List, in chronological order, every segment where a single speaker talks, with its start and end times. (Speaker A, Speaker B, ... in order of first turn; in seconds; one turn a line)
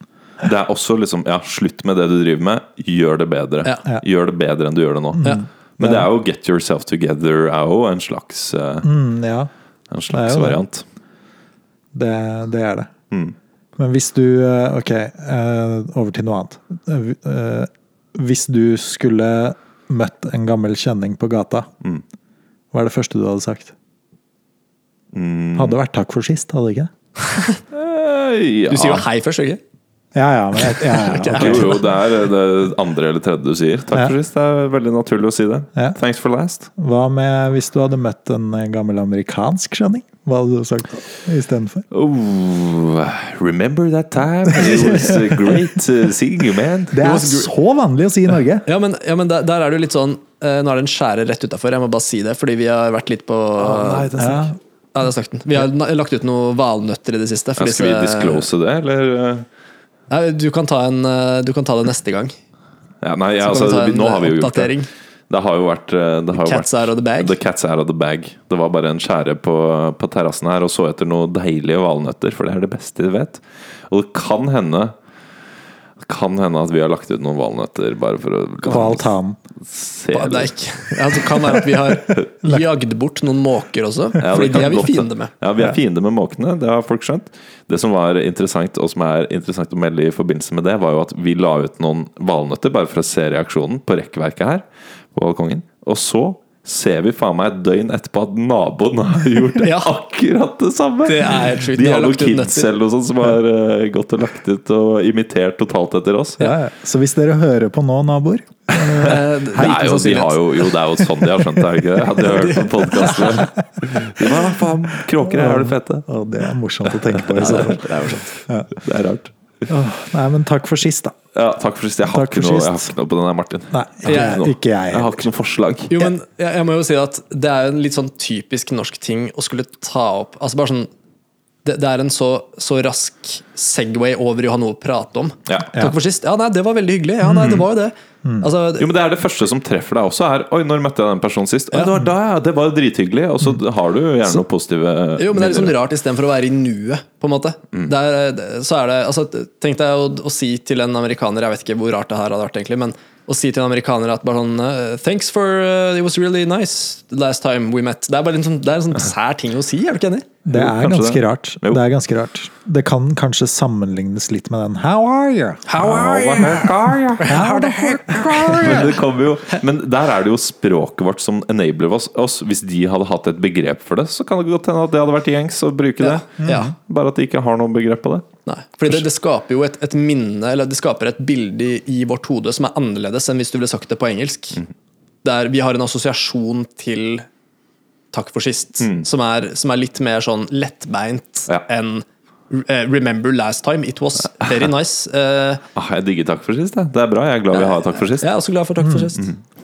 Speaker A: 0.4-8.9
Speaker B: 5.1-6.1
Speaker B: 8.8-9.5
Speaker A: 9.9-10.8
Speaker B: 10.1-10.6
Speaker B: 11.9-12.9
Speaker B: 13.8-21.7
Speaker B: 22.7-23.7
Speaker A: 25.1-25.8
Speaker B: 25.6-26.9
Speaker C: 27.3-27.6
Speaker A: 27.7-29.1
Speaker C: 28.7-29.6
Speaker B: 30.1-31.8
Speaker C: 30.7-31.8
Speaker A: 31.3-36.7
Speaker B: 36.8-41.9
Speaker A: 41.9-47.0
Speaker B: 44.5-45.6
Speaker B: 46.9-48.7
Speaker C: 47.0-47.5
Speaker C: 48.6-58.5
Speaker B: 53.6-54.6
Speaker A: 57.6-59.5
Speaker C: 60.1-62.3
Speaker A: 63.0-64.7
Speaker C: 63.4-64.9
Speaker A: 65.3-74.9
Speaker C: 66.3-67.4
Speaker A: 76.0-79.1
Speaker B: 78.6-79.4
Speaker A: 79.6-80.5
Speaker C: 80.1-85.3
Speaker A: 84.2-106.5
Speaker C: 99.6-99.9
Speaker C: 101.0-102.7
Speaker B: 106.4-109.2
Speaker A: 108.7-116.1
Speaker C: 108.9-110.8
Speaker C: 112.2-113.5
Speaker B: 115.2-117.9
Speaker A: 117.2-117.8
Speaker C: 117.4-118.3
Speaker A: 118.8-119.3
Speaker B: 119.7-121.2
Speaker A: 121.3-126.1
Speaker B: 122.1-122.9
Speaker B: 123.7-125.2
Speaker C: 124.1-124.4
Speaker C: 125.9-130.9
Speaker C: 131.7-138.9
Speaker A: 135.5-135.7
Speaker A: 137.3-137.7
Speaker A: 138.8-145.8
Speaker C: 141.7-142.0
Speaker C: 145.2-160.3
Speaker B: 160.4-165.7
Speaker A: 160.5-161.8
Speaker C: 165.7-169.0
Speaker A: 165.8-167.4
Speaker B: 167.2-168.7
Speaker A: 168.4-178.3
Speaker C: 176.0-176.7
Speaker B: 176.4-176.7
Speaker C: 178.5-184.6
Speaker C: 185.2-187.3
Speaker C: 188.1-195.6
Speaker A: 188.8-189.1
Speaker A: 195.8-198.3
Speaker C: 197.5-199.3
Speaker B: 198.8-199.1